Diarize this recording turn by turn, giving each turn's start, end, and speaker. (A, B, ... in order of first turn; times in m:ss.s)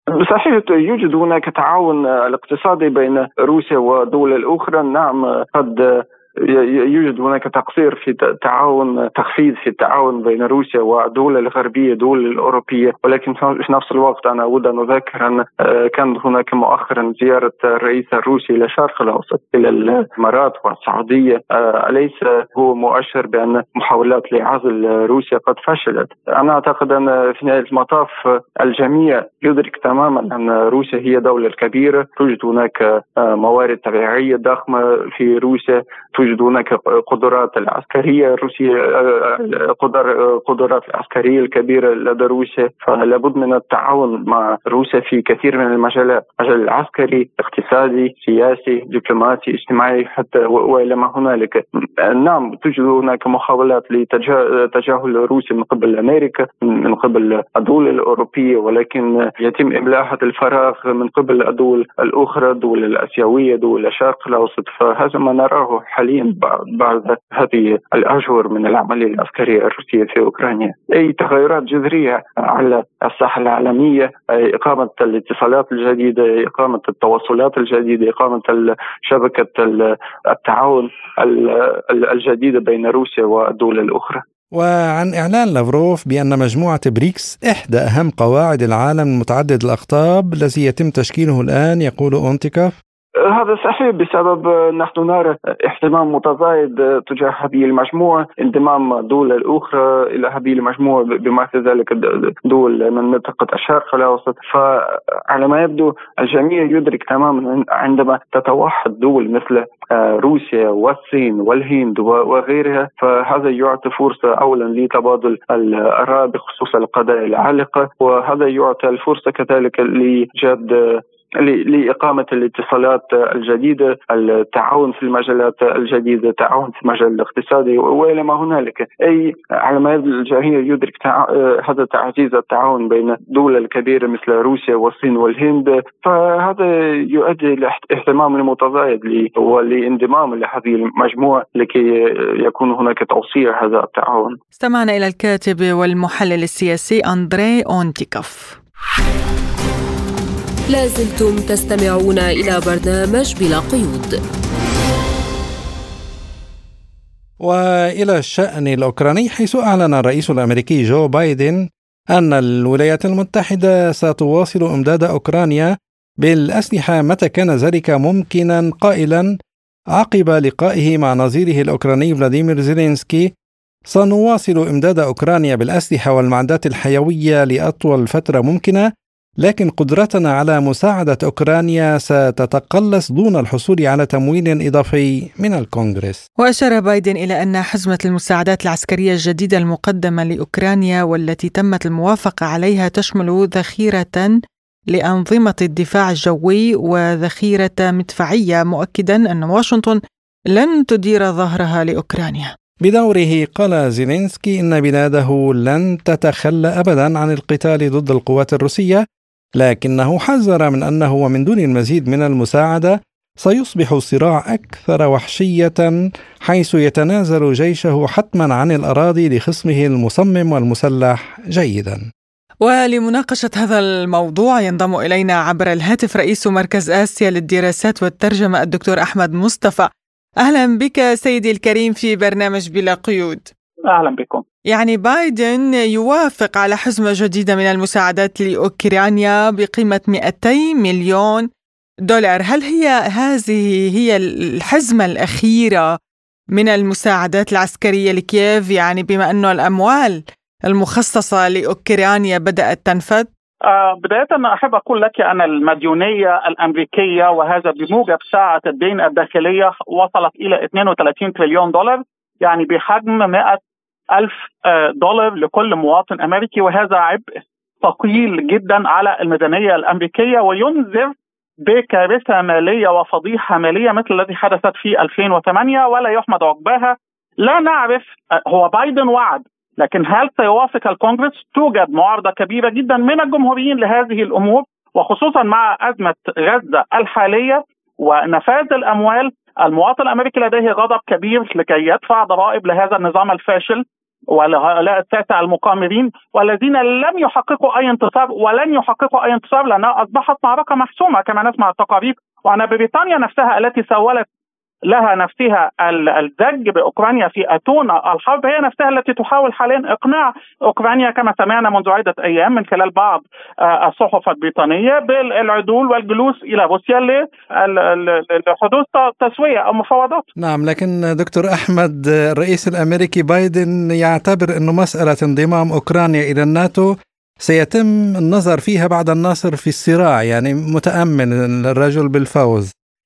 0:00.2-1:24.2 A
1:24.6-1:32.7 B
1:33.2-2:24.4 A
2:24.6-2:28.6 C
2:30.7-2:34.2 D
2:37.4-2:41.6 B
2:42.1-2:49.3 B
2:50.0-2:53.3 B
2:53.9-2:58.9 B
2:59.4-3:06.2 B
3:06.4-3:14.4 C
3:14.9-3:20.0 C
3:20.5-3:22.5 C
3:22.8-3:29.0 B
3:29.6-3:42.0 B
3:42.6-3:49.9 C
3:50.4-3:53.5 C
3:53.9-3:54.4 E
3:54.7-4:01.5 C
4:02.1-4:05.9 C
4:06.6-4:13.3 C
4:13.7-4:23.6 E
4:24.1-4:27.3 E
4:27.8-4:31.1 E
4:31.6-5:04.3 E
5:04.9-5:20.3 E
5:20.4-5:26.9 B
5:27.4-5:32.7 B